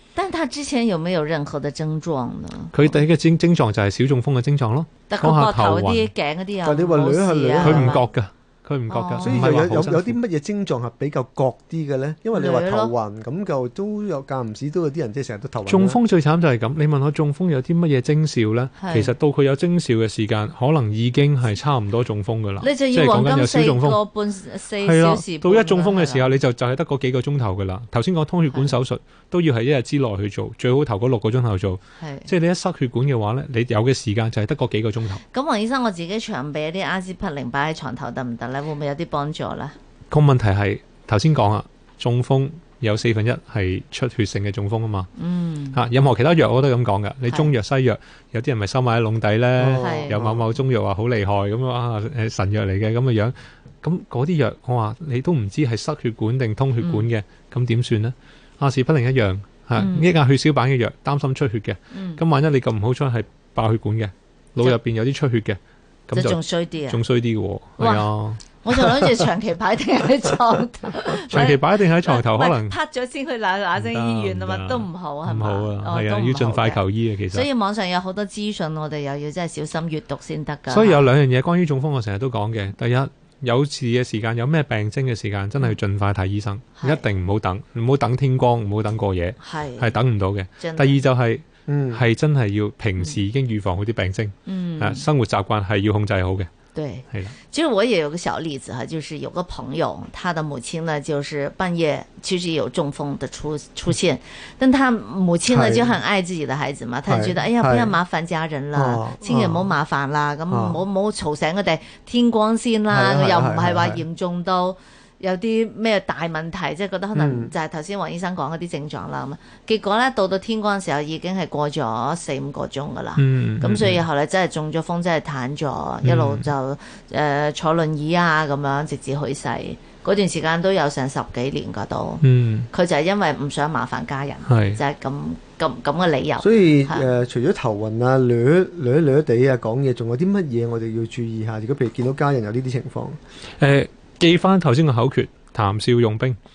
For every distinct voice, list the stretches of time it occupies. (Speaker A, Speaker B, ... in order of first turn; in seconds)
Speaker A: 0.1-3.0, 5.1-8.1, 8.9-9.4, 12.3-12.9, 18.8-19.1, 22.6-26.4, 32.0-32.3, 35.2-39.8, 45.2-45.8, 49.8-50.2, 56.8-57.1, 59.8-60.1, 61.9-62.2, 66.1-67.0, 67.8-68.1, 68.6-81.1, 86.8-87.0, 89.4-90.0, 90.6-91.0, 94.5-95.1, 96.7-137.1
Speaker B: 2.7-6.1, 7.6-10.2, 15.7-24.0, 24.8-35.2, 40.1-45.1, 45.7-68.4, 71.3-72.7, 73.8-77.5, 80.7-96.5, 123.2-124.0, 126.0-126.5, 132.2-132.7, 134.5-134.8, 143.6-146.4
Speaker C: 6.6-8.0, 9.2-16.0, 49.6-50.5, 91.7-92.0, 105.5-106.0, 107.1-108.0, 108.7-109.7, 110.5-110.8, 112.9-114.0, 117.2-117.5, 136.4-143.2